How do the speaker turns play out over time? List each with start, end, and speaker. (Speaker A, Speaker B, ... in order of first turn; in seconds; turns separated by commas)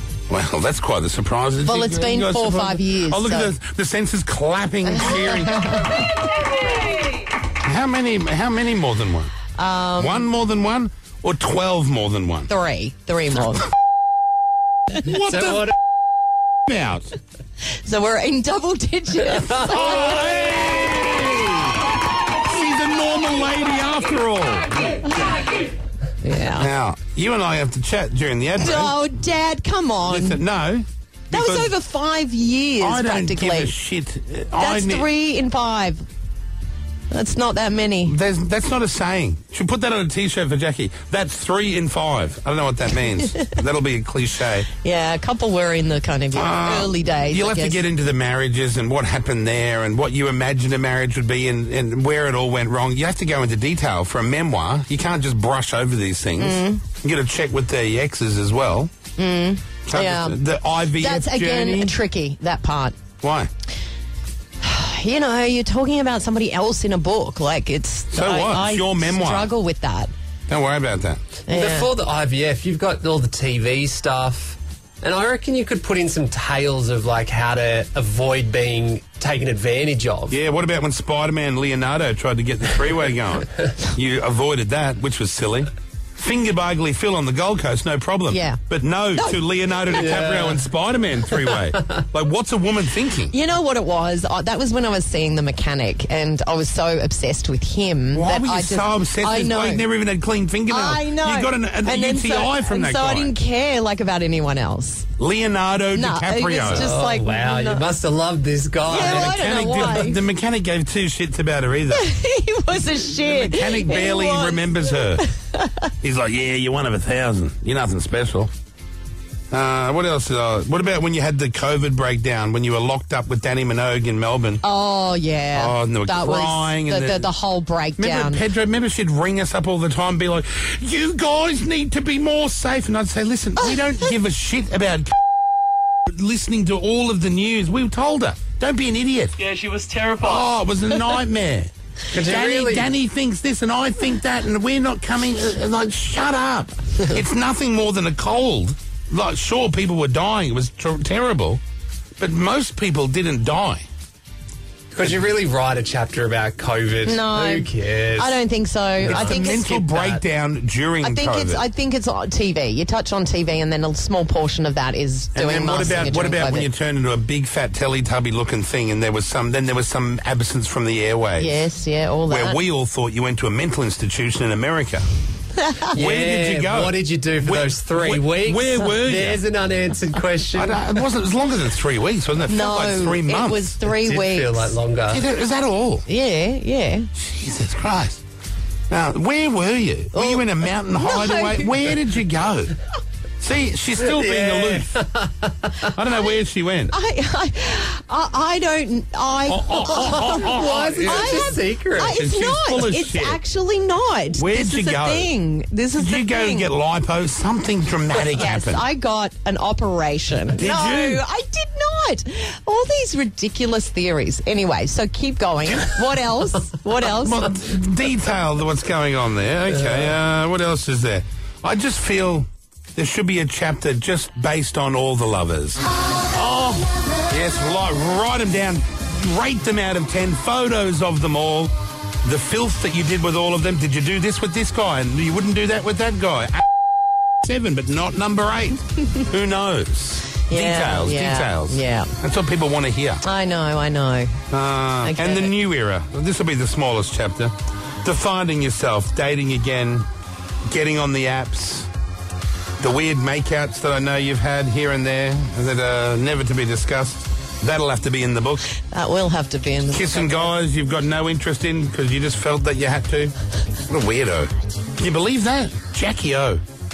Speaker A: 0.3-6.1, Speaker B: 1.6-3.5, Speaker B: 4.9-6.1, Speaker A: 7.5-9.3, Speaker B: 9.6-10.3, Speaker A: 10.0-12.5, Speaker B: 12.5-13.7, Speaker A: 14.9-15.7, Speaker C: 15.1-15.7, Speaker A: 16.7-17.1, Speaker B: 17.8-20.3, Speaker A: 19.5-21.9, Speaker A: 22.4-24.9, Speaker B: 26.2-26.7, Speaker A: 26.5-28.9, Speaker B: 28.6-30.4, Speaker A: 30.1-31.7, Speaker B: 31.3-33.7, Speaker A: 32.8-35.1, Speaker B: 34.6-36.0, Speaker B: 37.1-38.1, Speaker A: 38.0-44.7, Speaker B: 44.8-47.8, Speaker A: 46.3-58.9, Speaker B: 56.4-56.8, Speaker B: 59.2-60.4, Speaker A: 59.9-62.0, Speaker B: 61.0-63.0, Speaker A: 63.2-63.5, Speaker B: 64.6-70.1, Speaker A: 68.1-69.5, Speaker A: 70.5-71.2, Speaker B: 71.5-71.9, Speaker C: 71.5-80.4, Speaker A: 80.3-93.3, Speaker B: 88.3-88.6, Speaker C: 89.9-90.7, Speaker B: 93.3-99.9, Speaker A: 98.1-103.3, Speaker B: 100.7-105.1, Speaker A: 105.2-106.9, Speaker B: 106.0-107.9, Speaker C: 106.7-109.4, Speaker B: 108.9-110.2, Speaker A: 108.9-112.1, Speaker B: 111.9-115.9, Speaker A: 113.2-115.2, Speaker A: 116.0-118.5, Speaker A: 119.5-124.6, Speaker B: 124.6-128.4, Speaker A: 125.5-127.3, Speaker A: 128.0-135.2, Speaker A: 136.1-139.5, Speaker A: 140.1-151.6, Speaker C: 142.1-142.9, Speaker A: 152.2-153.9, Speaker C: 154.9-158.4, Speaker B: 157.1-159.7, Speaker C: 159.0-160.2, Speaker A: 159.1-161.6, Speaker B: 161.0-166.7, Speaker A: 165.3-171.6, Speaker B: 171.4-172.6, Speaker A: 172.3-175.1, Speaker B: 175.6-175.9, Speaker A: 175.9-179.4, Speaker C: 175.9-180.9, Speaker A: 180.6-183.7, Speaker B: 182.5-184.8, Speaker C: 183.8-185.2, Speaker A: 185.1-186.1, Speaker B: 186.1-187.1, Speaker A: 187.2-188.2, Speaker A: 188.9-192.8, Speaker B: 190.1-191.8, Speaker A: 193.4-195.0, Speaker C: 194.0-195.9, Speaker A: 195.9-196.9, Speaker B: 196.9-206.7, Speaker A: 199.5-203.4, Speaker C: 199.9-202.2, Speaker A: 204.4-205.3, Speaker A: 206.0-208.8, Speaker B: 208.3-217.5, Speaker A: 210.5-211.2, Speaker A: 217.0-236.7, Speaker A: 237.4-243.2, Speaker B: 240.5-242.1, Speaker B: 243.2-244.4, Speaker A: 244.5-250.1, Speaker B: 245.0-245.5, Speaker A: 250.7-251.9, Speaker A: 252.8-258.7, Speaker B: 258.9-260.5, Speaker A: 259.9-266.6